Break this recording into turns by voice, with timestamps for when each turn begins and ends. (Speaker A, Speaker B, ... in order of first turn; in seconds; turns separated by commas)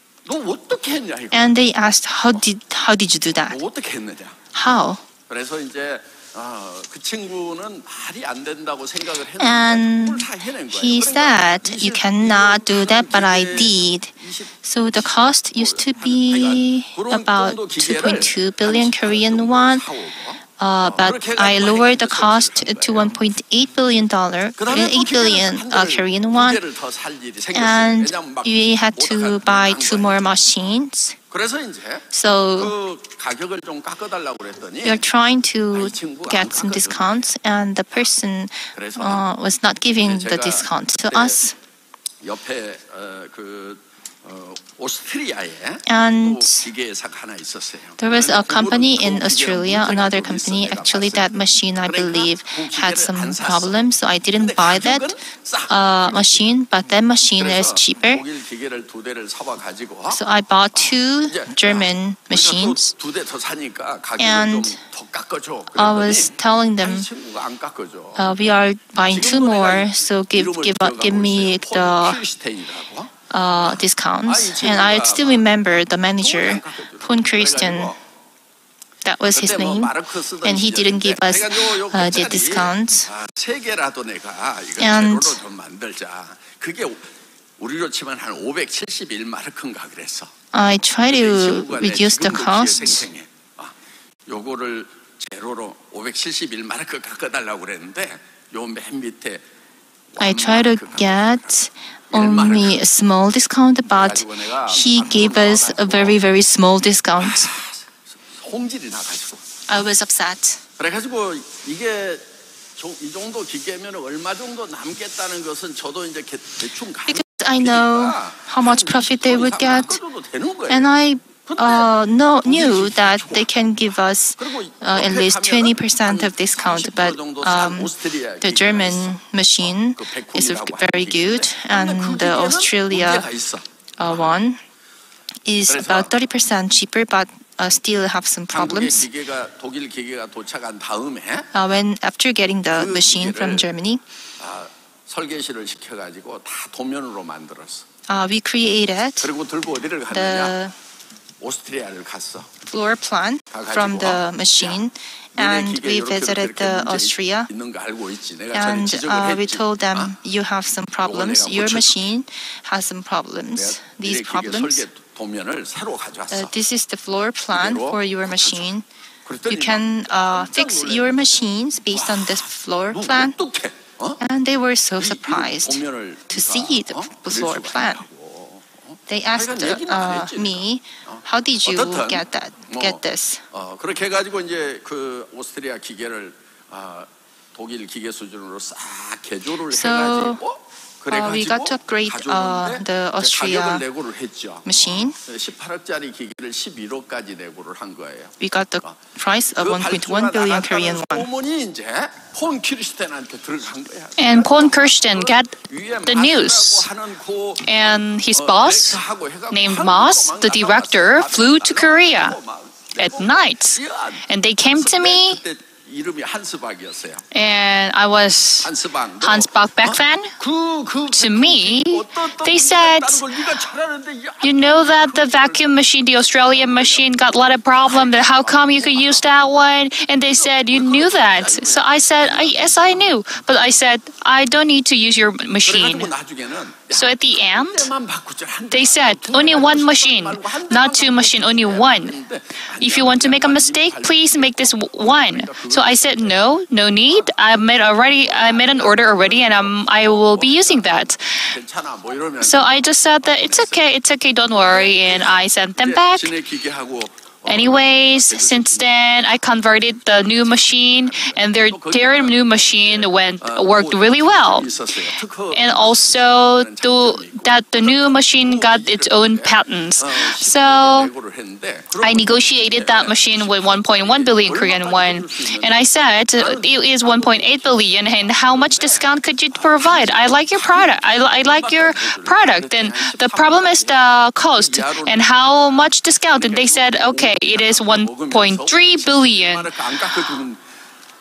Speaker A: 0.2-1.6, Speaker B: 1.3-3.6, Speaker A: 3.5-4.5, Speaker B: 4.5-5.0, Speaker A: 5.3-23.2, Speaker B: 9.4-19.9, Speaker B: 20.6-26.6, Speaker A: 24.6-30.2, Speaker B: 27.5-31.2, Speaker A: 31.3-35.0, Speaker B: 32.1-32.7, Speaker B: 34.8-41.5, Speaker A: 35.7-37.2, Speaker A: 38.7-39.2, Speaker A: 40.0-41.4, Speaker A: 42.2-53.8, Speaker B: 45.9-46.7, Speaker B: 48.0-55.1, Speaker A: 54.4-56.5, Speaker B: 55.7-58.2, Speaker A: 57.4-60.2, Speaker B: 60.1-62.9, Speaker A: 60.8-68.5, Speaker B: 64.2-64.8, Speaker B: 65.7-67.1, Speaker B: 68.2-72.2, Speaker A: 69.0-73.1, Speaker B: 73.3-77.9, Speaker A: 73.7-75.5, Speaker A: 76.2-78.0, Speaker B: 79.0-79.9, Speaker A: 79.3-87.0, Speaker B: 80.4-83.1, Speaker B: 84.8-85.4, Speaker A: 87.6-90.3, Speaker B: 90.5-93.1, Speaker A: 91.1-93.7, Speaker A: 94.3-99.4, Speaker A: 100.1-101.6, Speaker B: 100.2-107.5, Speaker A: 102.1-102.8, Speaker A: 103.9-106.2, Speaker A: 107.2-109.4, Speaker B: 109.7-110.6, Speaker A: 110.8-112.2, Speaker A: 112.8-120.9, Speaker B: 117.1-120.0, Speaker B: 120.7-133.3, Speaker A: 121.5-121.9, Speaker A: 122.4-123.5, Speaker A: 124.4-134.3, Speaker B: 134.0-134.6, Speaker B: 135.5-139.1, Speaker A: 135.7-136.2, Speaker A: 138.5-141.5, Speaker B: 141.5-144.0, Speaker A: 142.7-143.7, Speaker A: 144.4-147.8, Speaker B: 148.1-149.3, Speaker A: 149.2-150.6, Speaker B: 150.1-150.7, Speaker A: 151.4-152.5, Speaker B: 152.6-157.5, Speaker A: 153.5-154.8, Speaker A: 155.4-160.2, Speaker B: 158.5-164.9, Speaker A: 161.0-162.1, Speaker A: 163.6-166.5, Speaker B: 166.3-168.8, Speaker A: 167.5-168.7, Speaker A: 169.2-171.4, Speaker B: 169.5-173.4, Speaker A: 171.9-174.2, Speaker B: 174.2-178.1, Speaker A: 175.0-199.0, Speaker B: 179.1-183.4, Speaker B: 189.7-190.4, Speaker B: 191.1-193.8, Speaker B: 194.7-195.2, Speaker B: 198.4-201.3, Speaker A: 199.5-217.2, Speaker C: 204.2-205.5, Speaker C: 206.1-206.9, Speaker C: 207.7-209.0, Speaker C: 209.5-212.4, Speaker C: 212.9-215.4, Speaker C: 217.3-218.7, Speaker A: 218.6-229.2, Speaker C: 219.2-220.3, Speaker C: 221.1-223.4, Speaker C: 224.4-236.1, Speaker A: 230.3-233.2, Speaker A: 235.7-246.4, Speaker C: 236.9-237.9, Speaker C: 238.7-242.2, Speaker C: 242.8-251.4, Speaker A: 247.1-247.4, Speaker A: 248.2-253.8, Speaker C: 252.4-256.3, Speaker A: 254.6-259.1, Speaker C: 257.5-264.7, Speaker A: 260.1-275.8, Speaker C: 265.5-271.1, Speaker C: 272.0-289.7, Speaker A: 276.4-283.9, Speaker A: 284.6-285.3, Speaker A: 286.3-290.6